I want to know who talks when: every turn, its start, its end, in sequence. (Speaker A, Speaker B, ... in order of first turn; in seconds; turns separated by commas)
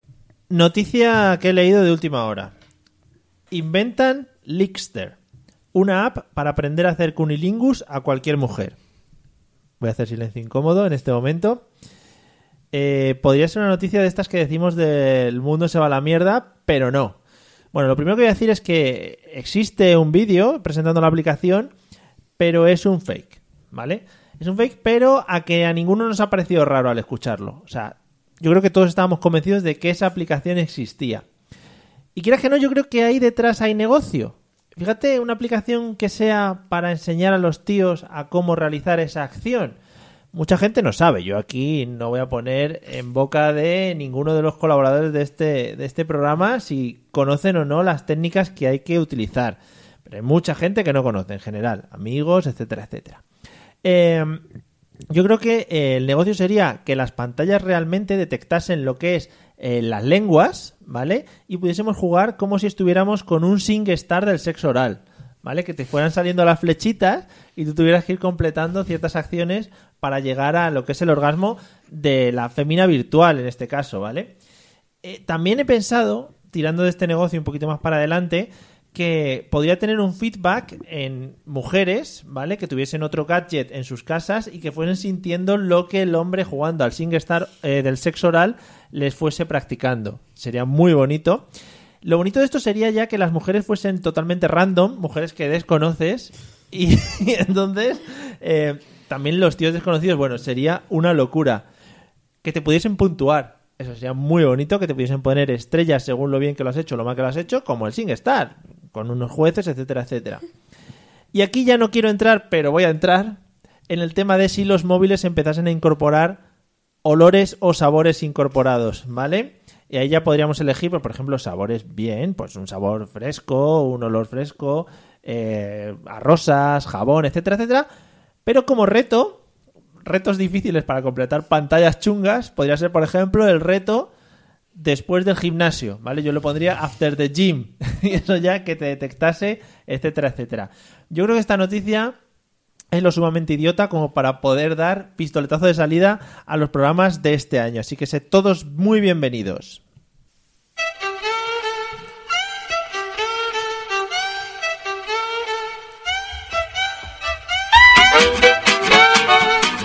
Speaker A: 0.5-2.5, Speaker A: 3.5-5.2, Speaker A: 5.7-8.8, Speaker A: 9.8-11.6, Speaker A: 12.7-17.2, Speaker A: 17.7-21.7, Speaker A: 22.4-31.2, Speaker A: 32.2-39.8, Speaker A: 40.3-53.2, Speaker A: 53.8-54.4, Speaker A: 55.1-74.3, Speaker A: 75.0-91.5, Speaker A: 92.0-101.7, Speaker A: 102.4-110.5, Speaker A: 111.3-113.4, Speaker A: 113.9-116.4, Speaker A: 117.0-127.9, Speaker A: 128.5-129.4, Speaker A: 130.1-134.1, Speaker A: 134.8-142.2, Speaker A: 142.9-149.8